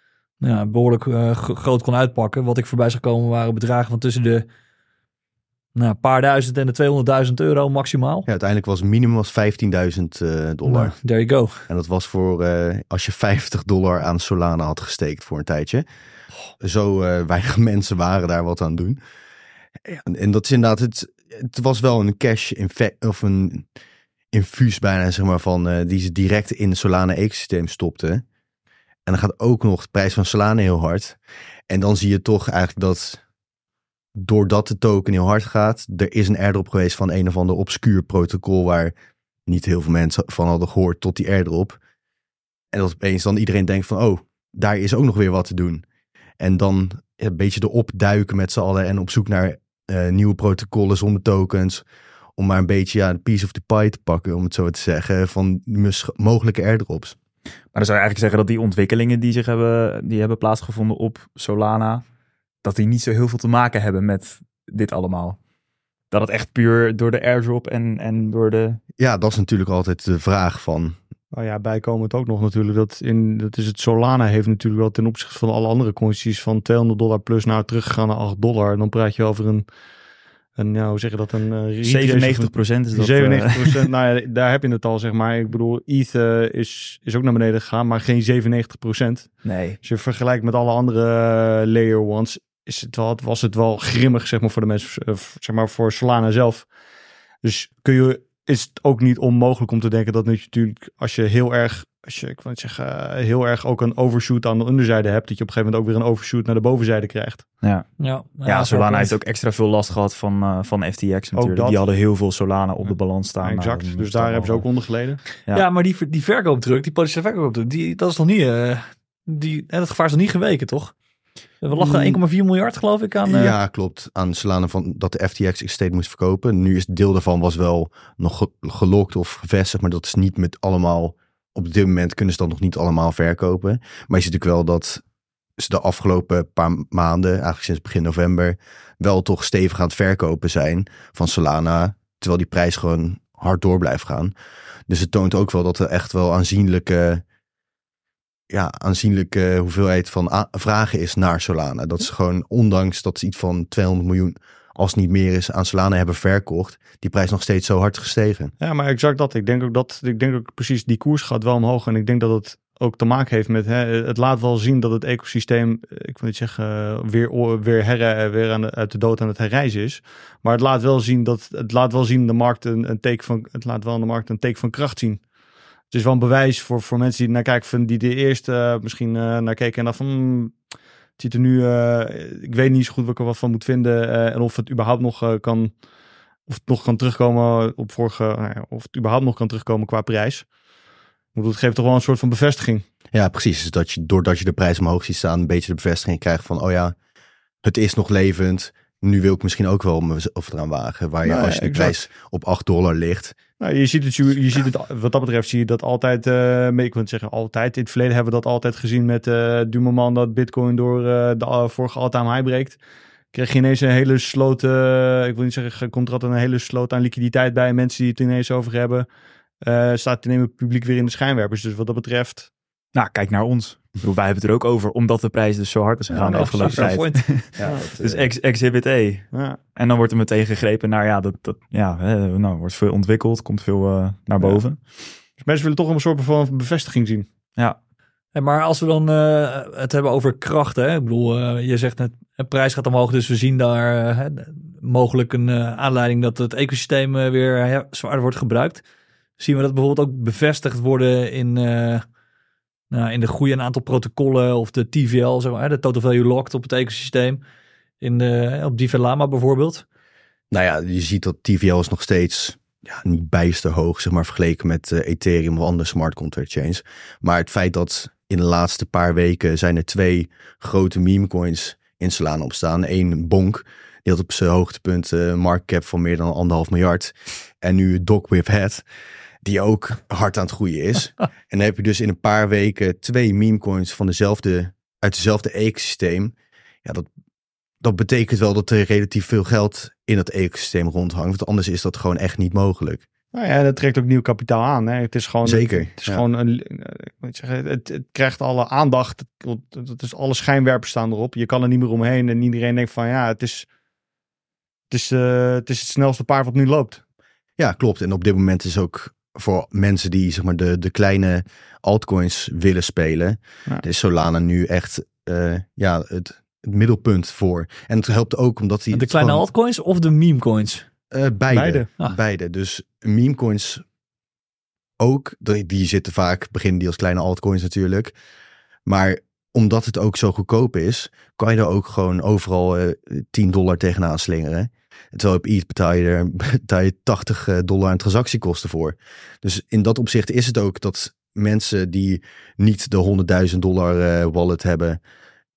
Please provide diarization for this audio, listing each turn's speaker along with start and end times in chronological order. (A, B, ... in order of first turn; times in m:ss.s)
0:00.4-0:04.4 A
0:05.7-0:08.3 A
0:08.2-0:10.9 B
0:10.6-0:11.6 A
0:11.7-0:15.8 B
0:16.6-0:19.0 B
0:19.8-0:23.7 B
0:24.3-0:28.2 B
0:29.0-0:31.2 B
0:31.7-0:33.2 B
0:34.1-0:38.9 B
0:39.5-0:41.8 B
0:42.7-0:45.8 B
0:46.4-0:51.8 B
0:52.4-0:57.2 B
0:57.7-1:02.0 C
1:02.6-1:05.4 C
1:06.1-1:08.8 C
1:09.0-1:11.0 B
1:11.3-1:19.7 D
1:20.6-1:36.7 D
1:21.8-1:23.9 C
1:29.4-1:29.8 C
1:37.4-1:47.4 D
1:47.6-1:47.9 C
1:48.0-1:49.1 A
1:48.4-1:54.6 C
1:51.4-1:51.8 D
1:53.4-1:55.2 D
1:55.5-2:00.9 A
2:01.6-2:03.6 A
2:01.7-2:02.2 B
2:03.2-2:15.0 B
2:15.6-2:24.3 B
2:24.9-2:27.2 B
2:28.5-2:38.5 B
2:38.6-2:55.2 D
2:55.9-3:00.6 D
3:01.2-3:05.7 D
3:06.5-3:10.5 D
3:11.3-3:12.8 D
3:13.1-3:16.9 B
3:17.6-3:23.4 B
3:21.2-3:21.9 D
3:23.6-3:32.8 D
3:33.3-3:39.1 D
3:39.6-3:42.5 D
3:42.9-3:54.8 C
3:46.1-3:47.0 D
3:46.3-3:47.2 A
3:47.6-3:48.3 B
3:49.3-3:49.6 D
3:55.4-3:57.3 D
3:58.3-4:08.8 A
4:09.4-4:12.0 A
4:12.9-4:17.4 A
4:18.0-4:19.8 A
4:20.5-4:38.8 B
4:39.4-4:47.1 B
4:47.8-4:53.0 B
4:53.3-5:03.7 D
4:55.4-4:56.2 B
5:04.9-5:07.0 D
5:07.6-5:19.5 B
5:18.9-5:20.8 A
5:21.1-5:23.8 B
5:21.5-5:21.9 D
5:25.0-5:28.1 B
5:28.8-5:45.0 B